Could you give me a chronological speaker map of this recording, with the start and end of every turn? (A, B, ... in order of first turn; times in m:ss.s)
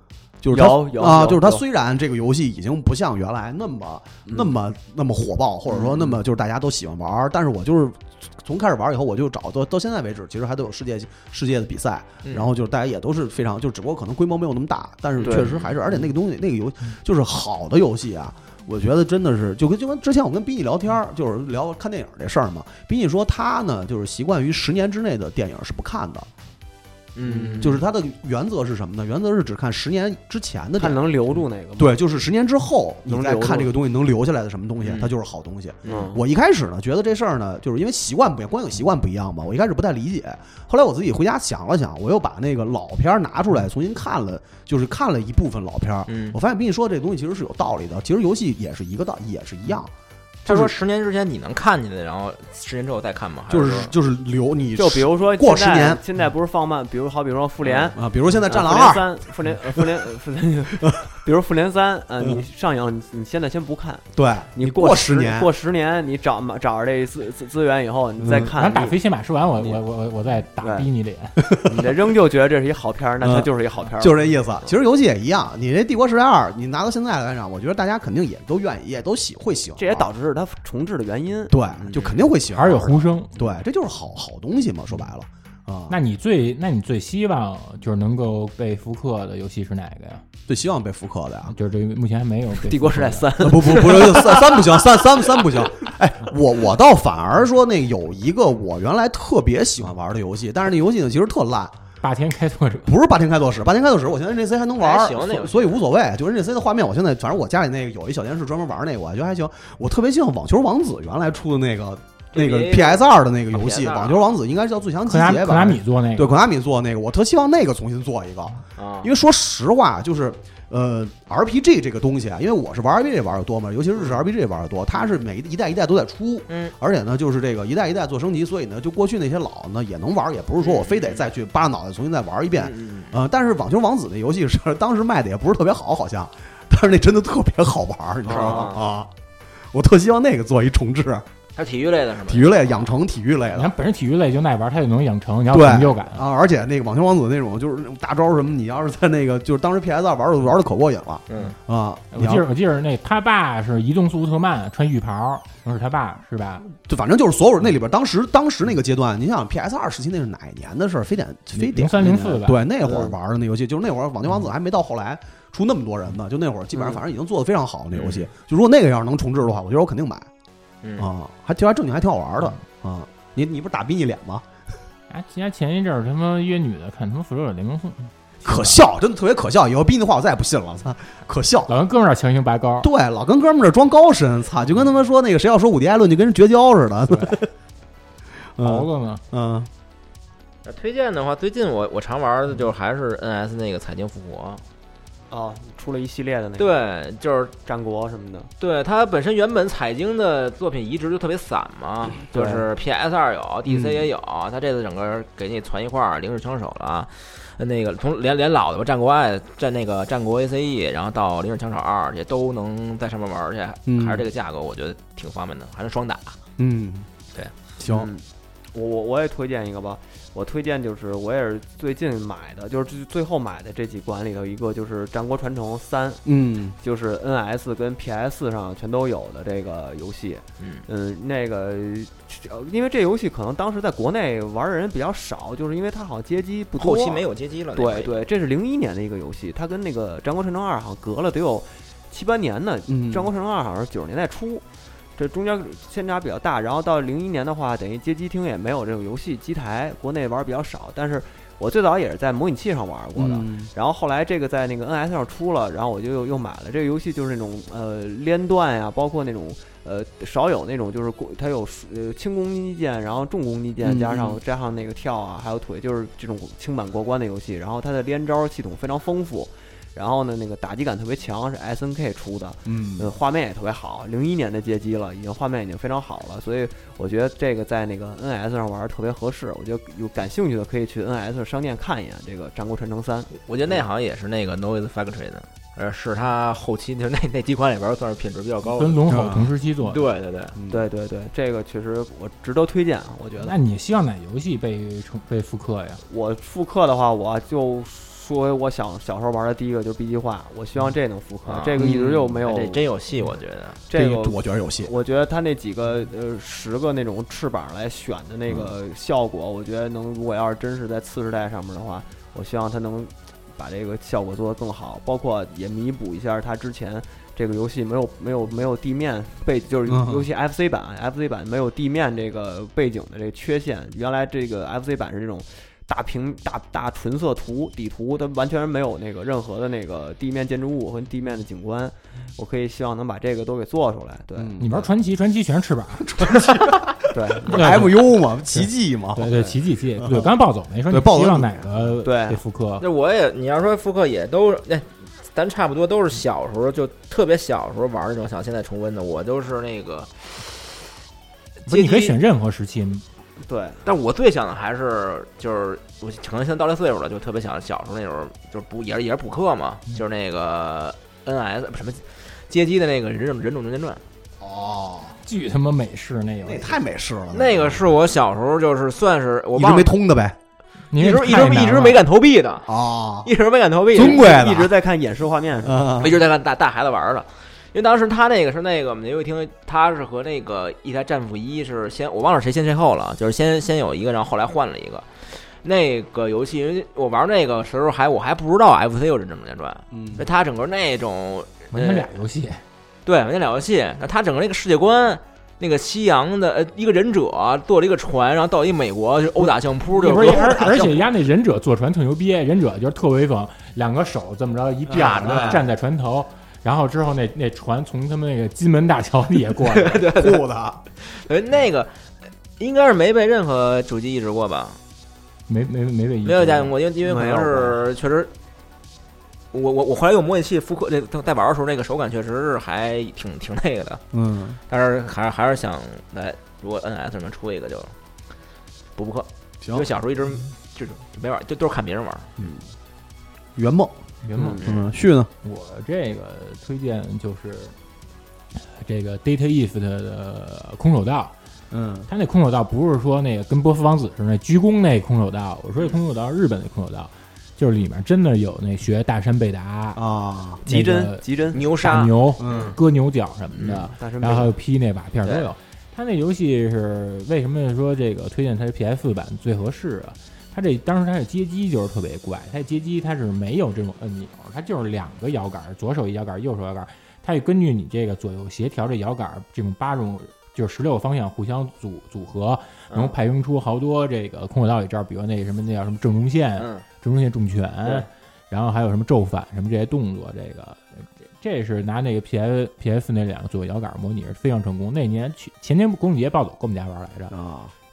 0:00.4-0:26.3 A
0:00.5-0:01.6 B
0:04.3-0:04.5 B
0:05.7-0:06.2 B
0:12.2-0:12.5 C
0:15.2-0:15.8 C
0:15.2-0:15.5 B
0:27.1-0:27.8 C
0:27.2-0:27.7 B
0:27.6-0:31.0 A
0:30.8-0:31.9 B
0:31.8-0:49.9 A
0:33.1-0:33.7 B
0:34.8-0:35.1 C
0:35.8-0:36.2 B
0:46.1-0:46.4 C
0:50.4-0:53.9 C
0:50.4-0:50.7 A
0:53.5-0:56.0 A
0:54.8-1:09.0 B
0:57.6-0:57.9 C
0:57.9-0:59.1 A
0:59.7-1:00.0 A
1:00.8-1:01.1 A
1:04.1-1:05.5 A
1:08.2-1:08.5 A
1:08.3-1:11.5 D
1:09.6-1:09.8 B
1:10.6-1:10.9 B
1:11.4-1:11.9 A
1:11.6-1:14.7 B
1:13.2-1:20.1 A
1:19.8-1:22.0 B
1:21.5-1:26.0 A
1:22.5-1:23.3 D
1:25.9-1:30.2 D
1:30.5-1:31.5 A
1:31.5-1:33.3 D
1:32.5-1:35.5 B
1:33.4-1:41.8 A
1:42.0-1:42.9 D
1:42.8-2:19.1 A
1:44.8-1:45.8 C
1:52.3-1:54.3 C
1:55.0-1:56.3 D
1:58.8-1:59.1 C
2:06.5-2:06.7 C
2:10.6-2:11.2 C
2:12.6-2:13.2 C
2:18.2-2:18.7 B
2:18.3-2:18.8 C
2:19.7-2:21.2 A
2:21.6-2:22.9 C
2:22.2-2:23.7 A
2:23.5-2:26.2 D
2:25.5-2:32.4 A
2:31.3-2:31.5 C
2:32.1-2:36.7 D
2:36.8-2:50.3 A
2:41.5-2:42.6 D
2:42.8-2:43.1 B
2:46.7-2:47.0 B
2:47.9-2:48.3 C
2:50.8-2:51.1 C
2:51.0-2:54.4 A
2:55.1-2:58.8 D
2:58.4-3:01.7 A
3:01.7-3:02.9 D
3:02.8-3:07.5 A
3:07.1-3:07.4 D
3:08.6-3:09.7 A
3:08.6-3:09.2 D
3:10.6-3:14.6 C
3:15.3-3:16.8 B
3:16.6-3:17.5 C
3:17.6-3:18.5 B
3:18.6-3:36.4 C
3:22.3-3:22.7 B
3:23.6-3:24.1 A
3:33.9-3:34.3 A
3:36.6-3:37.1 A
3:37.8-3:38.1 A
3:37.8-4:04.6 B
3:46.2-3:46.8 A
3:50.6-3:50.8 C
3:56.8-3:58.1 C
4:02.9-4:03.3 A
4:05.2-4:43.3 B
4:13.1-4:13.7 A
4:23.8-4:24.4 A
4:32.6-4:33.1 A
4:43.3-4:49.0 C
4:48.8-4:50.0 D
4:49.1-4:49.5 A
4:49.8-4:50.5 C
4:50.5-4:50.8 A
4:50.7-4:53.5 B
4:53.4-4:56.0 D
4:56.0-5:02.8 B
5:01.4-5:03.8 C
5:01.8-5:02.2 A
5:03.9-5:34.6 B
5:03.9-5:04.9 A
5:08.5-5:08.7 A
5:19.8-5:20.3 A
5:34.4-5:34.9 A
5:34.6-5:36.4 D
5:36.0-5:40.3 A
5:37.1-5:37.8 B
5:37.4-5:42.8 D
5:40.9-5:41.9 A
5:42.0-5:42.4 B
5:42.8-5:50.8 C
5:51.6-5:52.1 C
5:51.7-5:53.0 D
5:53.4-5:53.9 B
5:53.8-6:04.0 C
6:04.4-6:05.2 A
6:05.2-6:06.8 D
6:06.4-6:07.9 A
6:07.3-6:10.0 C
6:09.5-6:10.4 A
6:10.9-6:12.0 D
6:10.9-6:14.4 C
6:12.6-6:13.3 A
6:13.9-6:14.8 A
6:14.0-6:15.9 B
6:15.6-6:16.2 A
6:16.0-6:32.1 C
6:29.9-6:30.3 A
6:31.7-6:32.6 D
6:33.0-6:41.0 C
6:39.9-6:41.1 A
6:40.0-6:50.0 D
6:44.9-6:45.6 A
6:44.9-6:45.6 C
6:49.7-6:50.4 C
6:50.1-6:50.8 A
6:51.0-6:52.0 C
6:52.6-6:54.8 C
6:55.5-6:56.7 D
6:56.2-6:58.3 C
6:57.0-6:57.8 B
6:59.5-7:04.0 C
7:04.1-7:04.6 A
7:04.7-7:07.9 C
7:09.0-7:12.3 C
7:09.6-7:09.9 A
7:12.4-7:12.6 A
7:13.6-7:14.0 A
7:14.2-7:14.6 D
7:14.3-7:14.7 B
7:14.5-7:15.3 A
7:15.4-7:17.7 D
7:18.5-7:21.3 D
7:21.7-7:22.1 A
7:22.1-7:30.0 D
7:30.0-7:30.6 A
7:30.6-7:32.1 B
7:30.6-7:31.2 D
7:31.5-7:32.8 C
7:31.8-8:07.3 D
7:32.4-7:32.8 A
7:33.5-7:33.9 C
7:33.9-7:34.5 B
7:52.9-7:53.2 C
7:56.6-7:56.8 C
8:07.3-8:07.7 A